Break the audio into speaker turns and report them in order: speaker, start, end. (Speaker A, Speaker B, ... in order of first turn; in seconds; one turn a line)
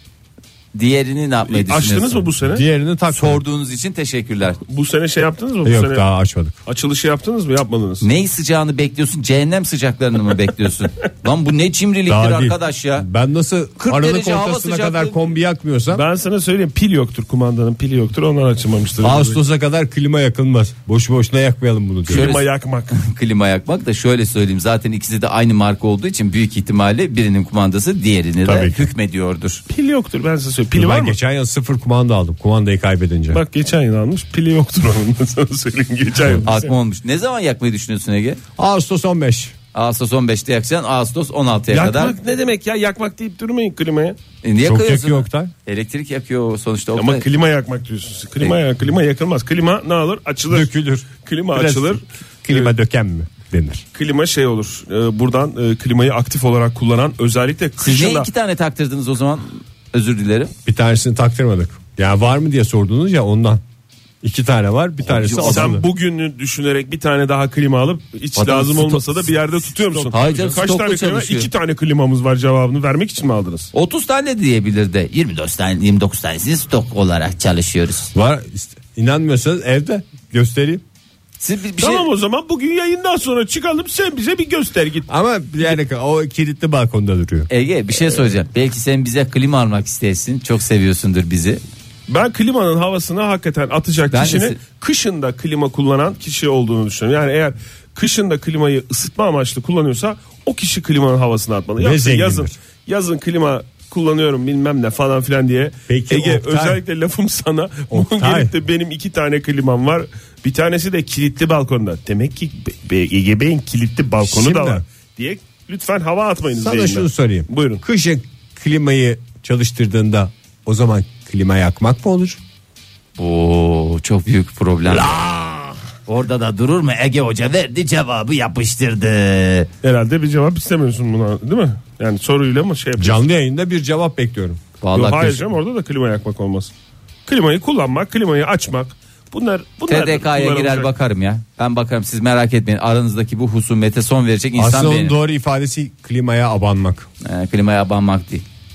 Speaker A: 0.7-2.3
Speaker B: 1.5-2.6
Speaker C: 2.5-3.4
Speaker A: 3.1-4.6
Speaker B: 4.7-6.0
Speaker C: 5.6-6.5
Speaker B: 6.7-8.1
Speaker A: 8.0-13.1
Speaker C: 12.1-16.0
Speaker A: 13.8-15.2
Speaker B: 15.9-19.4
Speaker C: 19.0-22.3
Speaker B: 22.1-22.9
Speaker A: 22.1-29.6
Speaker C: 28.4-28.9
Speaker B: 29.7-31.2
Speaker C: 30.7-33.4
Speaker B: 33.3-36.7
Speaker A: 36.4-38.4
Speaker C: 38.6-39.5
Speaker A: 39.7-42.1
Speaker B: 41.7-44.2
Speaker A: 44.4-47.2
Speaker C: 44.6-45.5
Speaker B: 47.0-50.7
Speaker C: 50.5-53.8
Speaker B: 51.2-52.7
Speaker B: 53.9-58.3
Speaker A: 57.8-60.5
Speaker C: 60.6-63.6
Speaker C: 64.2-65.8
Speaker A: 65.0-65.8
Speaker B: 65.4-73.7
Speaker A: 68.4-69.0
Speaker A: 70.1-71.5
Speaker A: 73.7-78.1
Speaker C: 78.1-80.8
Speaker A: 81.4-82.1
Speaker B: 81.8-85.1
Speaker C: 85.1-87.5
Speaker A: 87.5-91.6
Speaker B: 92.1-117.8
Speaker A: 94.1-94.6
Speaker C: 101.8-102.5
Speaker C: 105.9-106.8
Speaker C: 107.9-108.5
Speaker C: 114.2-114.8
Speaker C: 116.5-122.4
Speaker A: 123.2-125.2
Speaker C: 124.9-125.8
Speaker A: 126.1-129.7
Speaker B: 129.8-133.2
Speaker C: 133.0-134.6
Speaker A: 134.8-135.4
Speaker B: 134.9-136.7
Speaker B: 137.3-140.9
Speaker A: 139.9-145.1
Speaker C: 144.6-147.1
Speaker A: 147.2-148.4